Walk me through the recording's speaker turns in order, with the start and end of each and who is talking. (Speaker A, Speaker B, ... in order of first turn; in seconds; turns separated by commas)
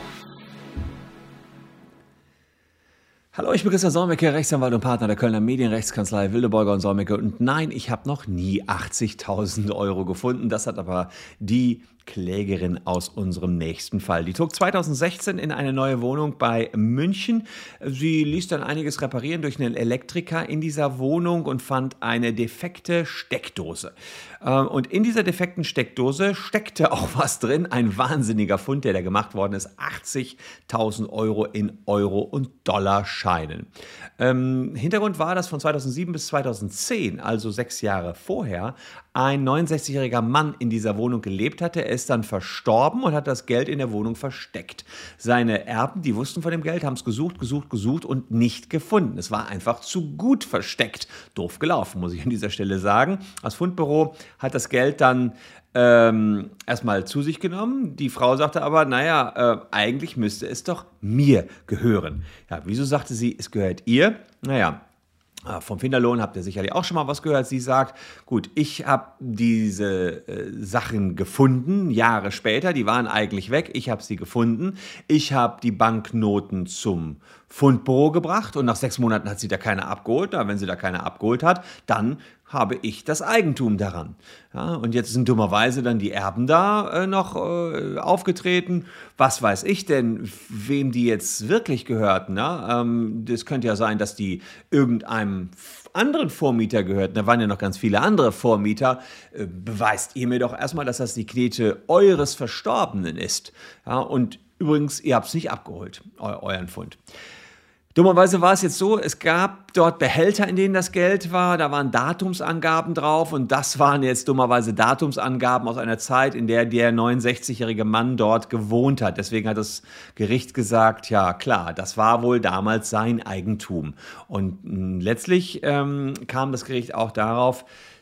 Speaker A: 3.3-64.8, Speaker A: 65.5-107.0, Speaker A: 107.9-127.7